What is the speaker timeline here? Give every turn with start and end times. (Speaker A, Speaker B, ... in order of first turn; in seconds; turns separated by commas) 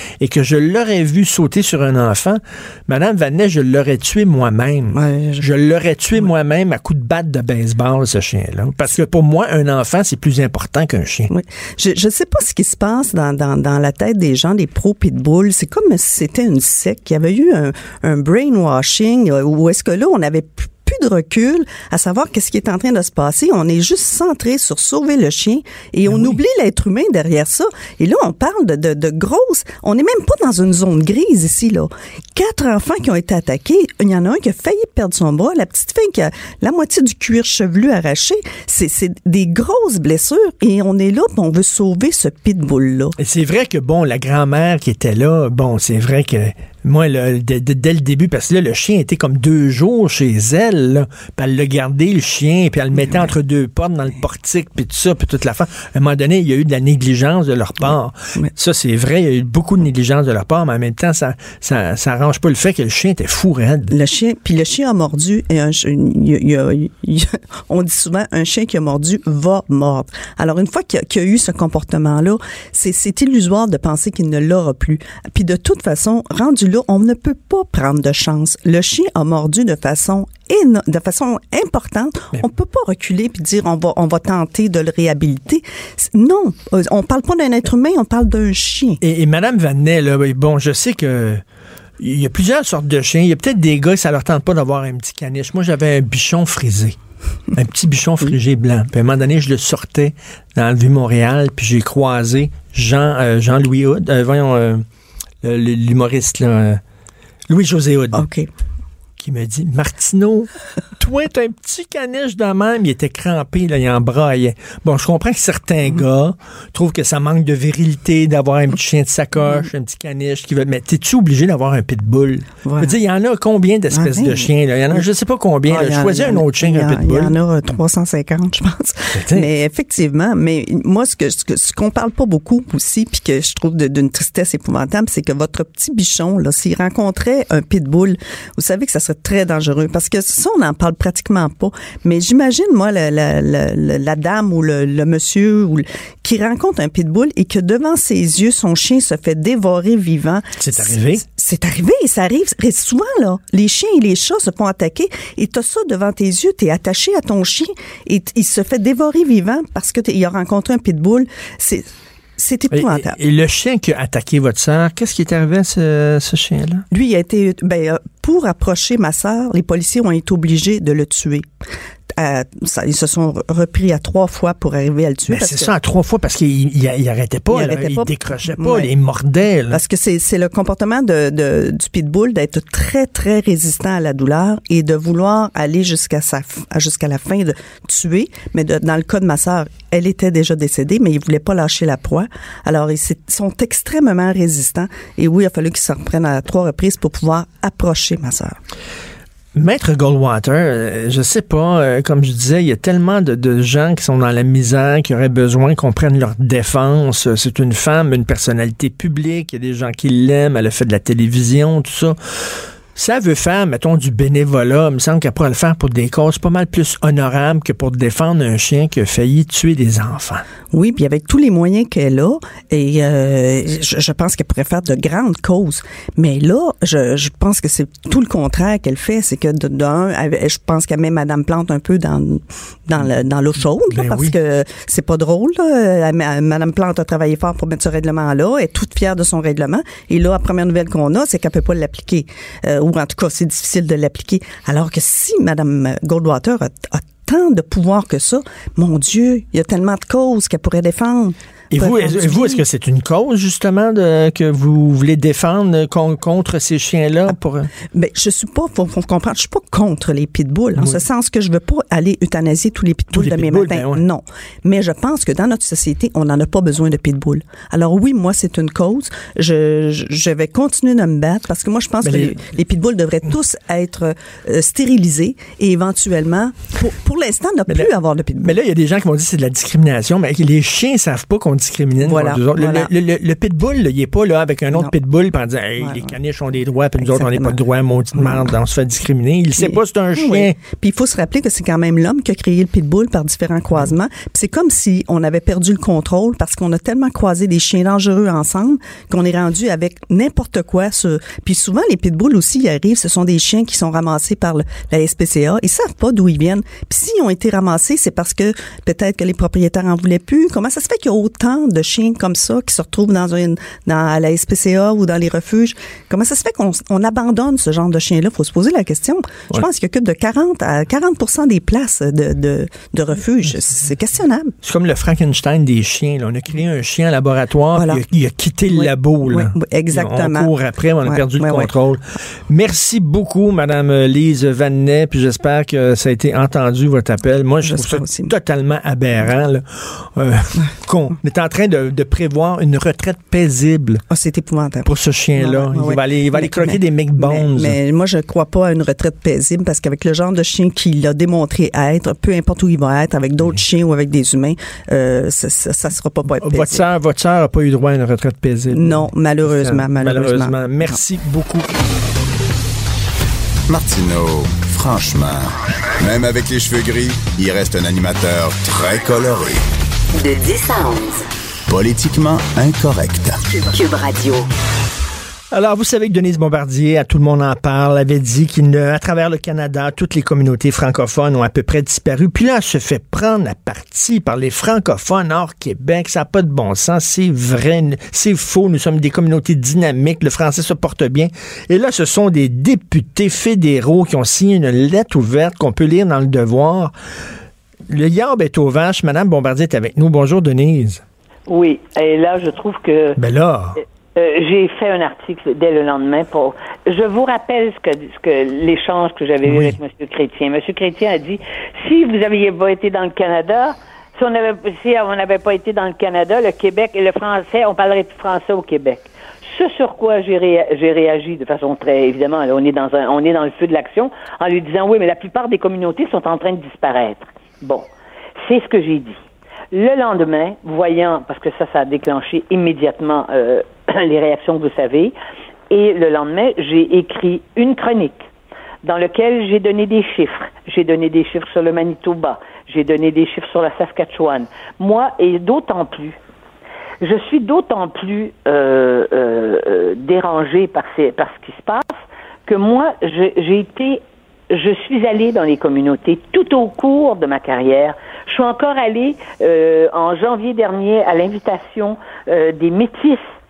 Speaker A: 0.2-11.3, Speaker B: 4.9-5.5, Speaker B: 11.3-43.1, Speaker A: 26.1-26.4, Speaker A: 43.2-63.9, Speaker B: 63.9-89.0, Speaker A: 89.0-91.4, Speaker A: 92.0-97.0, Speaker A: 97.5-104.8, Speaker A: 105.4-106.8, Speaker A: 107.5-108.2, Speaker B: 108.1-108.5, Speaker A: 109.2-127.3, Speaker B: 122.6-122.9, Speaker B: 123.9-125.0, Speaker B: 125.7-163.2, Speaker A: 129.1-129.5, Speaker A: 150.6-151.2, Speaker A: 162.7-166.8, Speaker B: 166.9-171.5, Speaker B: 172.1-175.7, Speaker A: 175.3-179.8, Speaker B: 177.5-178.9, Speaker B: 179.7-198.6, Speaker A: 199.5-212.2, Speaker A: 212.9-220.4, Speaker B: 220.7-252.6, Speaker A: 233.9-234.3, Speaker A: 251.7-257.7, Speaker B: 257.9-278.6, Speaker A: 260.8-261.0, Speaker A: 263.1-264.0, Speaker A: 272.0-272.4, Speaker A: 278.4-290.6, Speaker B: 282.0-282.9, Speaker B: 285.8-286.1, Speaker B: 287.0-287.6, Speaker B: 288.1-288.5, Speaker B: 289.6-324.5, Speaker A: 324.6-344.0, Speaker B: 327.7-328.0, Speaker B: 328.7-330.5, Speaker B: 331.0-331.7, Speaker B: 337.6-338.3, Speaker B: 344.1-356.8, Speaker A: 344.8-347.8, Speaker A: 356.4-361.8, Speaker B: 358.7-361.0, Speaker C: 363.7-369.6, Speaker D: 370.1-371.2, Speaker C: 371.7-373.4, Speaker D: 373.5-374.5, Speaker A: 375.5-396.9, Speaker A: 397.9-401.0, Speaker E: 401.5-403.2, Speaker A: 403.2-403.8, Speaker E: 404.1-429.2, Speaker A: 409.4-409.8, Speaker E: 429.7-435.1, Speaker E: 435.7-438.2, Speaker E: 438.8-446.2, Speaker E: 447.0-463.2